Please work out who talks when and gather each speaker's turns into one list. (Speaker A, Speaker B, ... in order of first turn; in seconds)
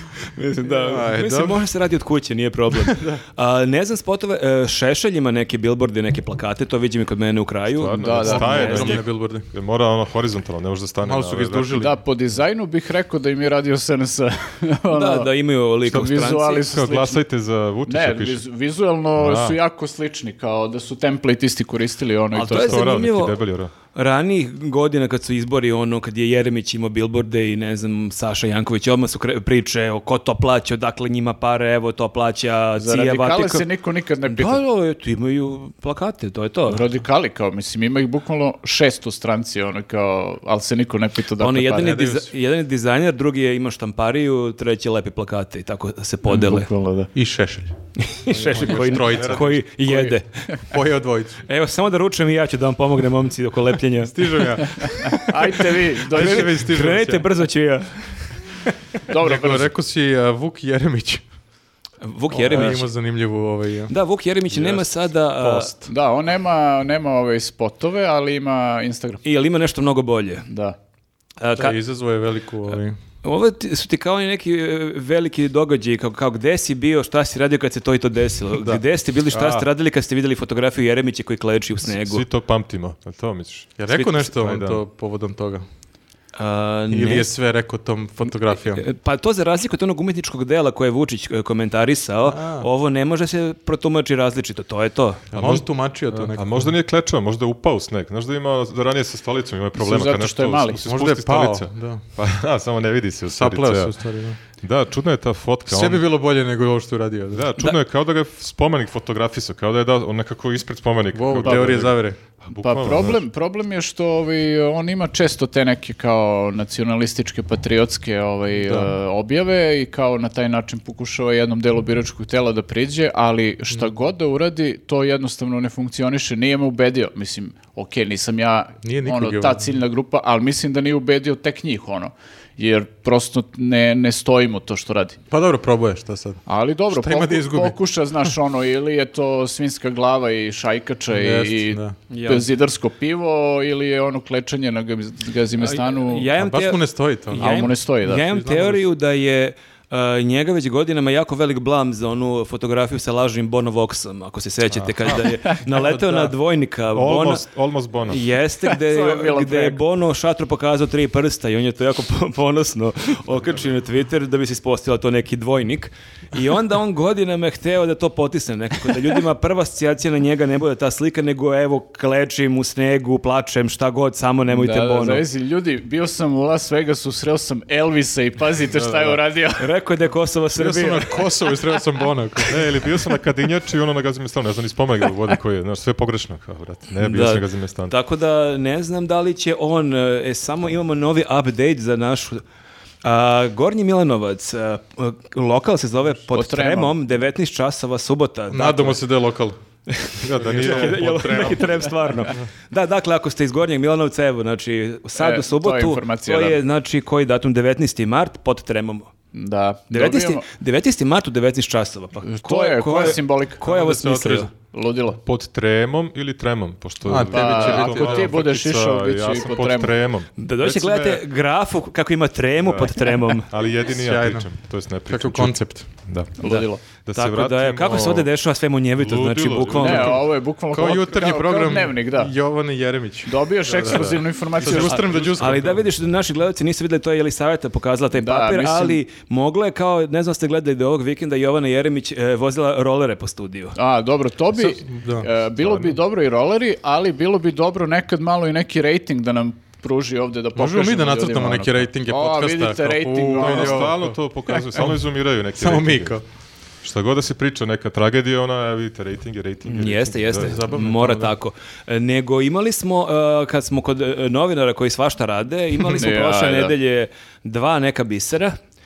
Speaker A: 0.3-9.0, 14.9-16.7, 22.3-23.4, 23.9-33.6, 34.2-36.8, 41.4-46.7, 48.0-50.6, 51.5-55.2, 56.1-58.3, 62.0-62.9, 63.9-65.7, 69.2-70.5, 71.4-71.8, 73.2-82.2, 86.3-87.3, 88.6-95.2, 142.1-142.4, 145.6-157.4, 158.1-175.2, 179.6-181.2, 187.0-192.4, 193.0-199.0, 199.9-209.1, 209.9-214.5, 220.4-223.5, 226.4-230.2, 234.7-243.8, 259.7-268.6
Speaker B: 0.7-1.6, 8.2-9.5, 11.0-11.9, 41.8-42.3, 47.1-50.1, 50.6-51.4, 54.1-55.2, 56.0-57.2, 59.1-61.2, 62.3-63.9, 64.5-64.8, 65.3-65.9, 71.5-73.0, 78.6-78.8, 83.8-85.6, 86.9-88.8, 92.2-92.7, 95.3-96.7, 100.8-102.0, 103.3-104.4, 105.7-107.4, 111.1-112.2, 118.6-118.9, 128.8-129.6, 135.3-137.8, 141.1-142.0, 146.3-148.8, 155.1-156.3, 180.6-182.6, 198.5-199.6, 200.3-201.9, 213.7-214.5, 217.0-218.4, 223.9-224.5, 225.1-225.9, 230.7-235.8, 244.5-245.3, 250.5-255.0, 255.5-256.2, 260.4-261.3
Speaker C: 7.8-11.9, 15.9-18.4, 19.1-19.6, 22.5-23.7, 48.7-49.6, 79.3-79.7, 81.9-84.8, 95.3-104.0, 104.6-106.0, 107.3-113.2, 156.9-158.2, 178.7-179.2, 182.5-187.9, 200.2-201.8, 215.2-221.2, 222.6-226.4, 227.0-228.3, 229.0-230.2, 233.7-234.7, 245.6-245.9, 253.3-256.2, 256.8-260.6
Speaker D: 8.0-8.9, 11.8-15.3, 15.9-17.2, 17.9-22.8, 32.8-34.6, 36.7-42.1, 46.3-47.1, 49.9-50.1, 55.1-56.6, 59.1-59.7, 65.9-69.2, 70.5-70.8, 99.8-100.8, 111.4-111.7, 112.6-135.2, 136.4-146.3, 147.4-148.2, 158.7-159.8, 174.5-179.7, 196.3-197.1, 205.1-206.6, 209.3-210.4, 212.2-215.2, 217.3-219.9, 226.4-226.8, 229.8-232.3, 233.2-235.2, 238.2-239.0, 243.7-253.9, 265.9-266.7